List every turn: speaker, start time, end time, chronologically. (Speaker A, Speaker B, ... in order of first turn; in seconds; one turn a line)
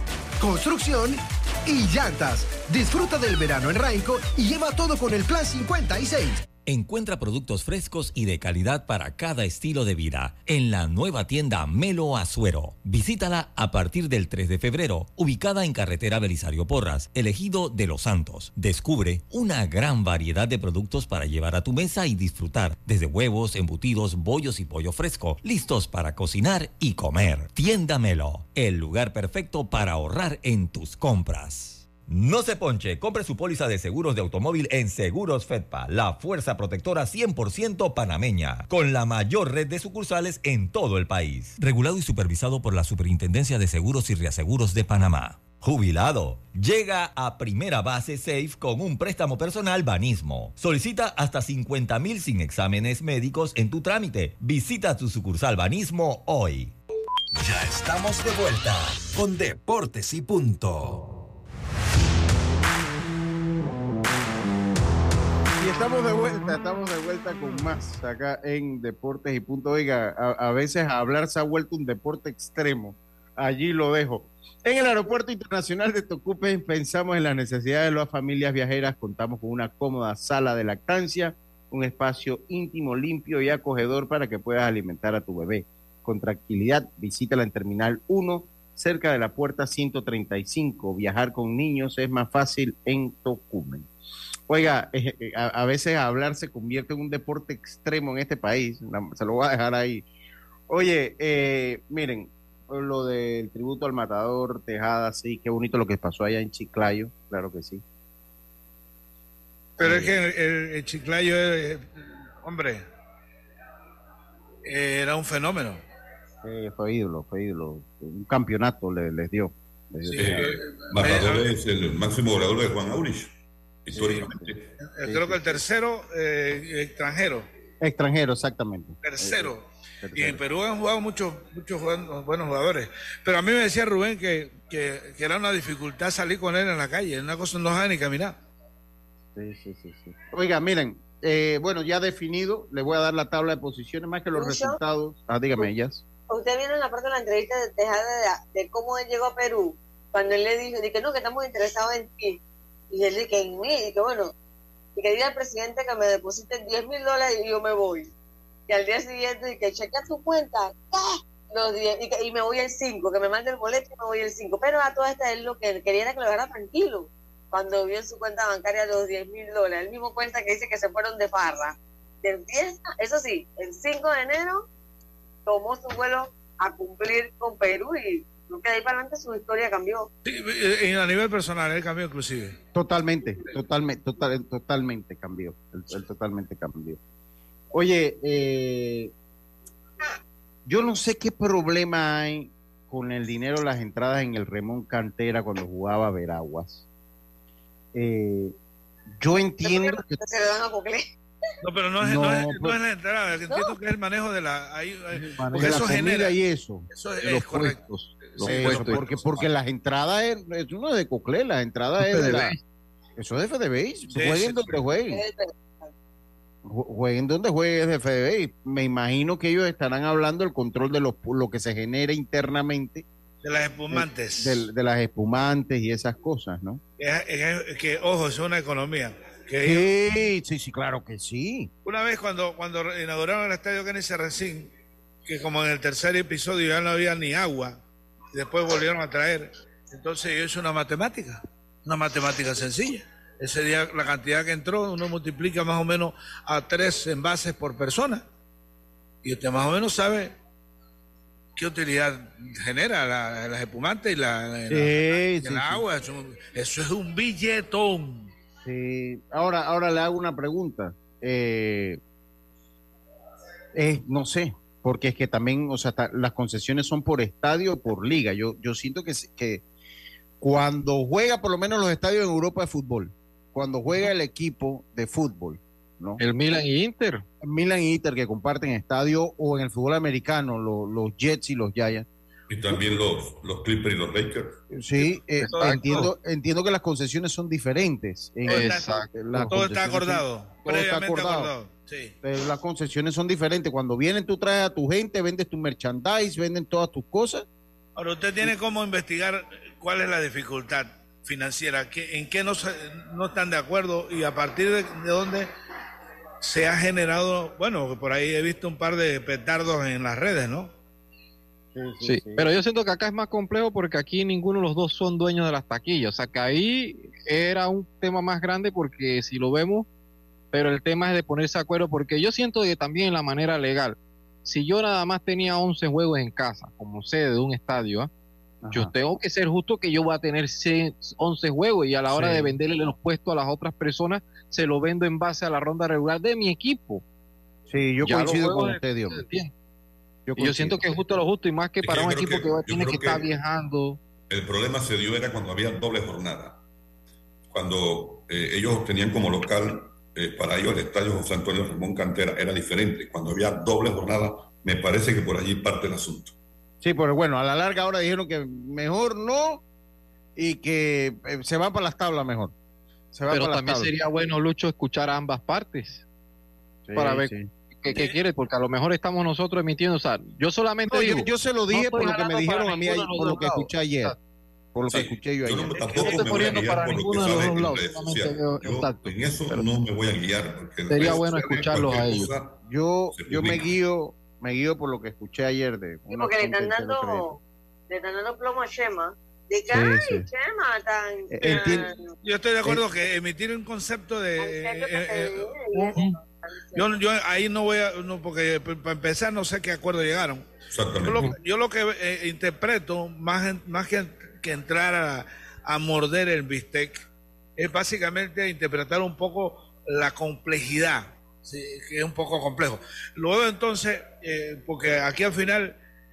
Speaker A: 0.4-6.4
Speaker B: 6.7-56.7
Speaker C: 57.3-61.1
Speaker D: 65.6-93.9
Speaker D: 94.5-100.1
Speaker D: 100.7-107.8
Speaker D: 109.8-110.2
Speaker E: 109.8-112.8
Speaker E: 114.7-115.8
Speaker D: 116.4-120.5
Speaker E: 120.1-121.5
Speaker F: 120.1-123.3
Speaker F: 123.9-124.7
Speaker D: 123.9-125.6
Speaker E: 124.9-127.5
Speaker D: 127.8-130.4
Speaker E: 129.0-129.6
Speaker E: 130.2-138.4
Speaker D: 139.3-146.0
Speaker G: 144.3-144.8
Speaker G: 146.3-154.3
Speaker G: 155.0-158.1
Speaker G: 158.7-174.7
Speaker G: 175.5-180.1
Speaker E: 180.2-182.6
Speaker D: 182.7-187.0
Speaker D: 187.7-189.1
Speaker D: 190.7-196.8
Speaker D: 197.9-198.6
Speaker D: 199.2-200.2
Speaker G: 199.6-201.1
Speaker E: 201.6-206.4
Speaker D: 202.0-202.8
Speaker H: 205.1-205.8
Speaker D: 205.5-206.9
Speaker E: 206.9-209.2
Speaker H: 207.2-209.3
Speaker D: 208.4-212.6
Speaker H: 212.0-212.6
Speaker D: 213.2-215.2
Speaker E: 214.1-214.7
Speaker G: 215.1-215.9
Speaker D: 216.7-223.1
Speaker E: 223.4-224.7
Speaker D: 223.9-226.8
Speaker E: 227.0-229.9
Speaker D: 229.6-231.7
Speaker E: 231.8-234.7
Speaker E: 235.3-237.8
Speaker E: 238.3-248.2
Speaker E: 249.2-250.3
Speaker E: 251.6-258.3
Speaker D: 254.7-255.8
Speaker D: 258.6-262.0
Speaker D: 263.8-269.6
Speaker D: 270.4-276.2
Speaker H: 276.2-277.2
Speaker D: 277.4-282.1
Speaker F: 282.5-284.6
Speaker D: 284.7-291.5
Speaker H: 285.4-286.1
Speaker E: 285.5-286.1
Speaker E: 288.5-292.1
Speaker H: 288.5-289.1
Speaker D: 292.2-297.5
Speaker E: 298.0-305.5
Speaker E: 306.4-310.7
Speaker D: 311.7-312.5
Speaker H: 312.0-319.9
Speaker H: 320.5-328.1
Speaker D: 328.6-328.9
Speaker H: 328.7-337.0
Speaker D: 332.1-332.6
Speaker D: 337.7-339.2
Speaker H: 338.0-339.5
Speaker D: 340.3-340.8
Speaker H: 340.4-344.0
Speaker F: 341.8-343.3
Speaker F: 344.3-346.6
Speaker F: 347.5-356.3
Speaker D: 356.8-359.6
Speaker D: 360.4-362.5
Speaker D: 363.1-363.9
Speaker H: 363.3-366.0
Speaker D: 366.9-367.5
Speaker H: 367.0-374.2
Speaker D: 370.9-374.2
Speaker D: 374.8-376.5
Speaker F: 374.9-382.6
Speaker H: 375.9-379.7
Speaker H: 380.9-382.3
Speaker D: 382.6-387.4
Speaker F: 383.1-383.8
Speaker G: 386.1-387.4
Speaker G: 387.9-392.1
Speaker D: 389.7-390.3
Speaker D: 391.3-391.9
Speaker E: 392.2-395.5
Speaker G: 394.4-396.9
Speaker H: 395.8-396.1
Speaker E: 396.8-407.0
Speaker F: 400.7-401.3
Speaker E: 407.6-415.8